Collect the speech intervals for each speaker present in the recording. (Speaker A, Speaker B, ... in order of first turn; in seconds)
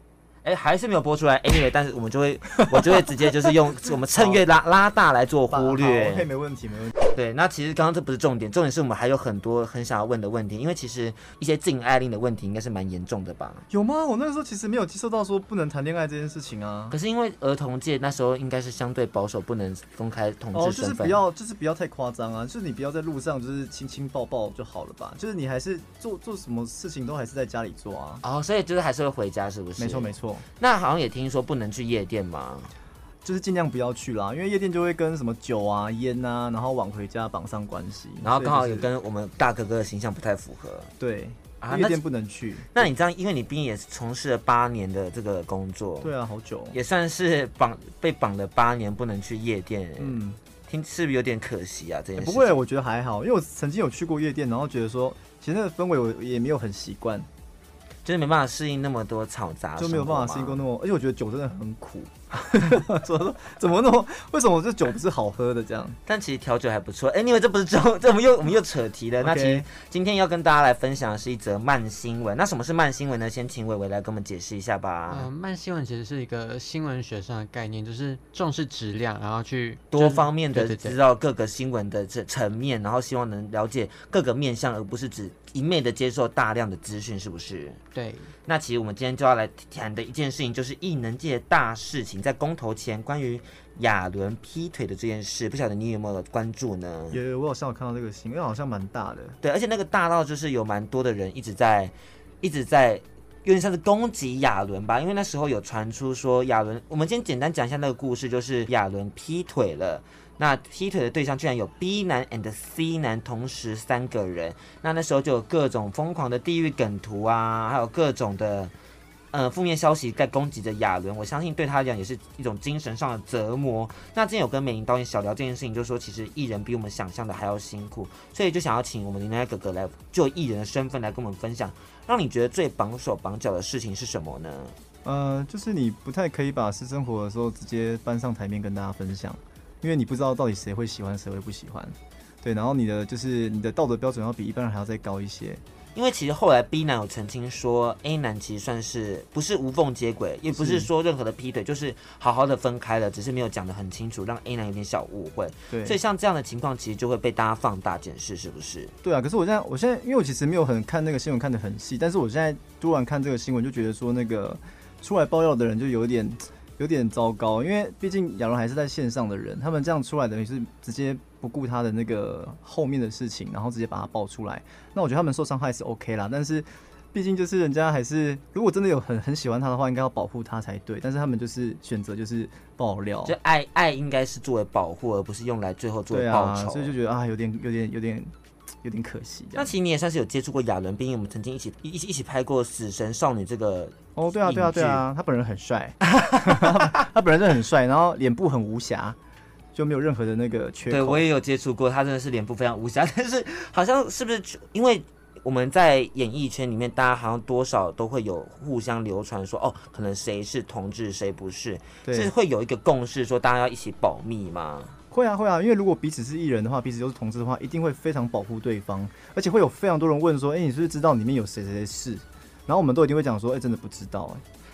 Speaker A: 0.4-6.3, 7.1-13.6, 16.9-21.2, 28.2-32.7, 38.2-40.9, 41.6-42.0, 42.7-46.1, 46.7-52.6, 58.0-60.6, 66.0-75.3, 79.9-87.8, 88.5-97.2, 99.4-118.7, 119.3-134.7, 145.9-158.9, 183.2-186.9, 189.5-195.0, 196.1-196.8, 200.9-214.9
Speaker B: 4.1-4.5, 5.5-7.0, 13.7-16.9, 20.5-28.2, 29.8-30.4, 33.2-38.9, 41.0-42.9, 46.0-46.8, 50.0-50.4, 52.1-57.3, 59.8-66.0, 69.2-69.7, 97.1-99.4, 135.0-145.6, 150.5-150.9, 155.7-156.0, 159.0-183.3, 186.1-189.7, 194.2-199.2, 199.7-201.2, 212.0-212.3, 215.1-224.4
Speaker C: 75.1-81.0, 87.9-88.3